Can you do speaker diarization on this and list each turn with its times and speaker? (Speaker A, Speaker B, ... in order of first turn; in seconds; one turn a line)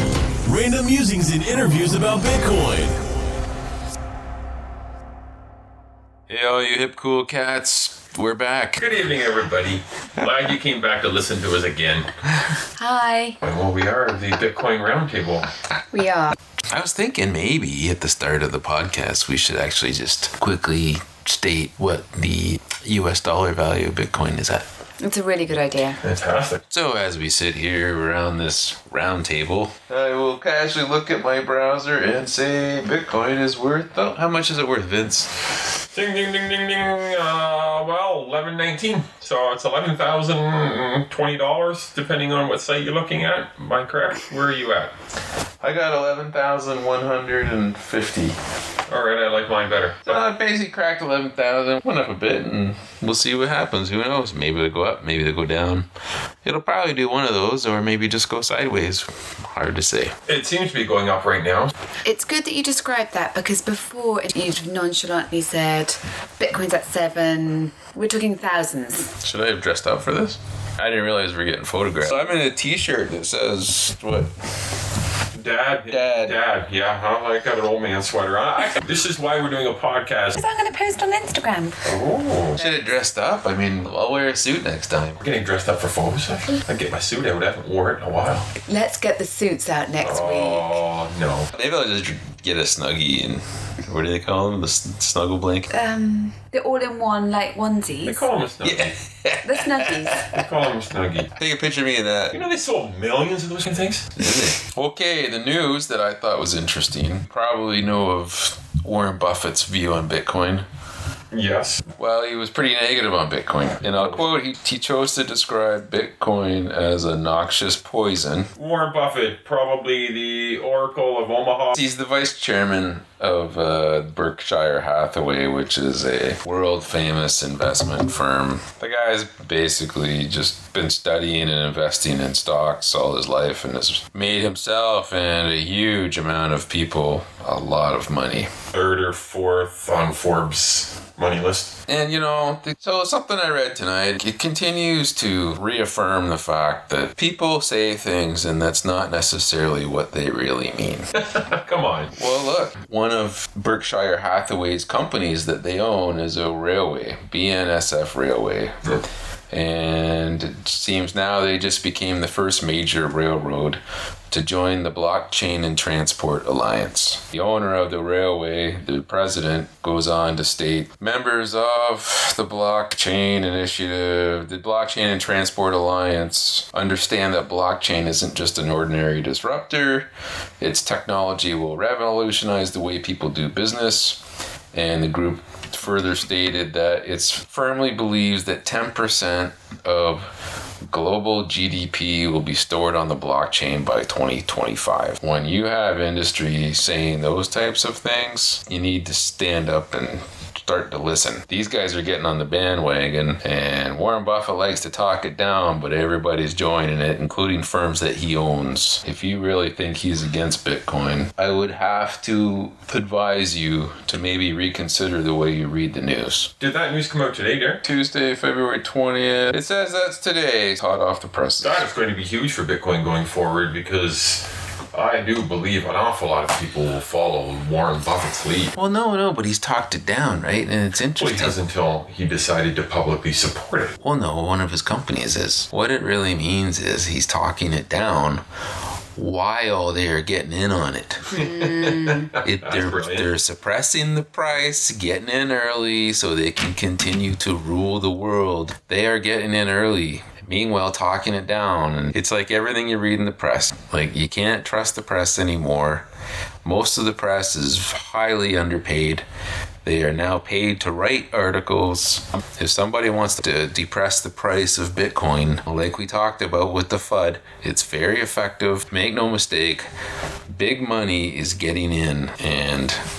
Speaker A: 0.4-3.0
Speaker B: 6.3-8.9
Speaker C: 8.8-12.1
Speaker D: 12.8-13.4
Speaker C: 13.4-15.5
Speaker D: 15.9-16.3
Speaker B: 16.7-24.6
Speaker D: 25.0-26.0
Speaker C: 26.0-26.6
Speaker B: 26.7-35.3
Speaker C: 35.9-44.9
Speaker B: 45.6-48.4
Speaker C: 48.9-50.2
Speaker B: 50.0-55.9
Speaker B: 56.4-60.1
Speaker C: 60.3-61.7
Speaker D: 62.0-69.1
Speaker B: 69.2-74.3
Speaker C: 75.3-80.4
Speaker B: 75.9-76.4
Speaker D: 80.4-81.8
Speaker C: 81.8-82.6
Speaker B: 82.6-85.2
Speaker C: 85.2-88.5
Speaker D: 88.7-90.8
Speaker C: 90.0-91.5
Speaker B: 91.5-95.7
Speaker D: 95.7-98.2
Speaker C: 98.0-99.0
Speaker B: 98.6-100.4
Speaker D: 99.4-100.3
Speaker C: 100.3-101.3
Speaker B: 101.3-102.4
Speaker C: 102.3-104.1
Speaker B: 104.2-110.7
Speaker C: 111.3-111.8
Speaker B: 112.0-118.5
Speaker C: 113.9-114.2
Speaker C: 118.5-121.7
Speaker B: 121.7-138.5
Speaker C: 138.7-141.7
Speaker B: 141.9-151.1
Speaker C: 151.2-152.1
Speaker B: 152.1-158.8
Speaker B: 159.5-180.1
Speaker B: 180.6-184.2
Speaker B: 184.7-216.5
Speaker C: 216.6-217.8
Speaker B: 217.8-221.8
Speaker C: 221.6-228.7
Speaker B: 228.7-231.6
Speaker C: 231.2-234.0
Speaker B: 234.0-238.4
Speaker B: 239.2-241.3
Speaker D: 241.3-242.3
Speaker C: 241.3-243.3
Speaker B: 242.4-256.1
Speaker B: 256.6-259.2
Speaker B: 259.8-269.9
Speaker B: 270.5-273.0